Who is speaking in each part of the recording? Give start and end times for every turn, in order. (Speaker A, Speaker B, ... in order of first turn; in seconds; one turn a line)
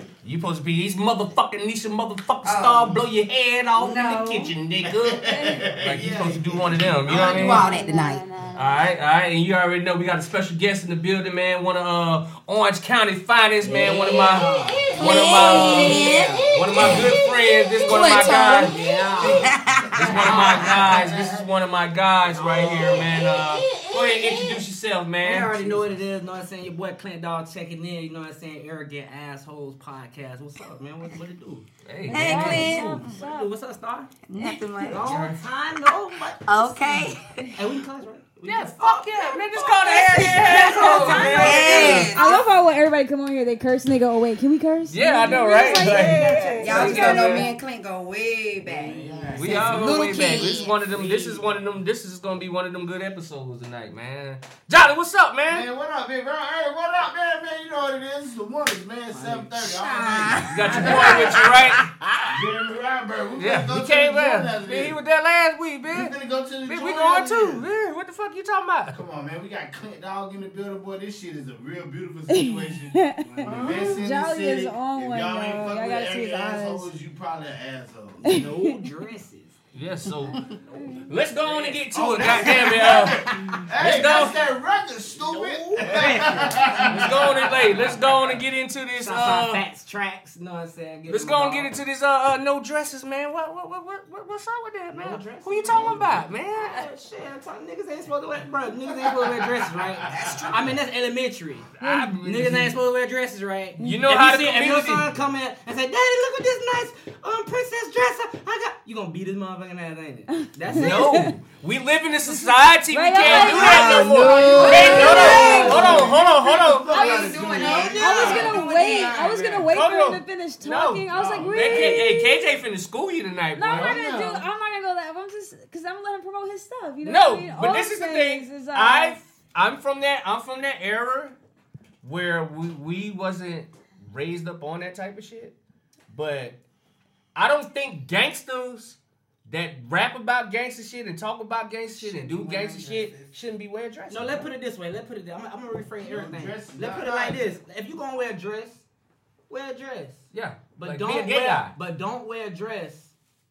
Speaker A: 0.2-5.2
Speaker B: 2.4-3.0
Speaker B: 3.8-4.5
Speaker C: 4.8-7.2
Speaker D: 5.2-5.7
Speaker A: 5.8-7.7
Speaker B: 7.1-8.2
Speaker D: 7.3-8.9
Speaker A: 8.6-19.4
Speaker E: 13.6-17.1
Speaker B: 13.7-20.9
Speaker E: 17.9-21.1
Speaker A: 19.9-25.8
Speaker C: 20.1-21.4
Speaker E: 22.3-23.1
Speaker B: 22.7-24.6
Speaker E: 25.2-34.1
Speaker A: 31.9-32.9
Speaker D: 32.1-33.5
Speaker B: 32.1-33.1
Speaker B: 34.3-35.1
Speaker E: 34.8-42.2
Speaker A: 35.0-35.4
Speaker B: 36.4-37.5
Speaker A: 38.4-42.1
Speaker B: 39.8-42.5
Speaker D: 40.4-47.5
Speaker A: 44.9-47.5
Speaker E: 45.6-47.0
Speaker B: 46.1-50.7
Speaker C: 48.6-50.7
Speaker E: 49.2-49.6
Speaker A: 49.3-55.7
Speaker E: 50.4-51.5
Speaker C: 55.5-61.6
Speaker E: 59.1-59.5
Speaker B: 59.6-62.4
Speaker A: 60.5-61.8
Speaker E: 60.7-61.1
Speaker C: 62.2-65.0
Speaker A: 63.4-66.1
Speaker C: 65.9-67.7
Speaker A: 66.7-69.0
Speaker C: 68.9-78.4
Speaker D: 72.3-76.9
Speaker E: 73.3-73.9
Speaker E: 78.2-79.6
Speaker D: 78.3-78.7
Speaker A: 79.7-80.5
Speaker E: 80.5-84.4
Speaker D: 80.8-81.0
Speaker A: 81.1-83.3
Speaker C: 81.9-87.5
Speaker A: 83.8-84.4
Speaker E: 85.1-88.1
Speaker A: 85.9-86.2
Speaker A: 86.8-89.6
Speaker E: 89.0-91.7
Speaker A: 91.1-96.9
Speaker E: 94.9-101.7
Speaker C: 98.9-100.8
Speaker B: 100.1-100.7
Speaker A: 101.8-102.8
Speaker D: 101.8-102.2
Speaker E: 102.2-111.3
Speaker D: 103.8-104.0
Speaker A: 103.8-105.1
Speaker D: 110.4-111.4
Speaker A: 110.7-116.9
Speaker D: 112.3-116.1
Speaker E: 113.2-114.2
Speaker C: 113.2-119.7
Speaker B: 114.5-116.2
Speaker E: 114.9-115.8
Speaker B: 116.8-119.2
Speaker D: 116.9-122.5
Speaker E: 117.3-118.6
Speaker A: 119.7-124.1
Speaker C: 121.1-122.0
Speaker D: 123.5-129.2
Speaker C: 123.7-124.5
Speaker A: 127.0-131.4
Speaker A: 132.0-135.6
Speaker A: 136.1-136.6
Speaker A: 137.3-144.5
Speaker B: 142.1-142.8
Speaker C: 142.3-143.0
Speaker E: 144.1-148.8
Speaker C: 146.0-147.6
Speaker E: 149.5-153.1
Speaker A: 150.3-151.7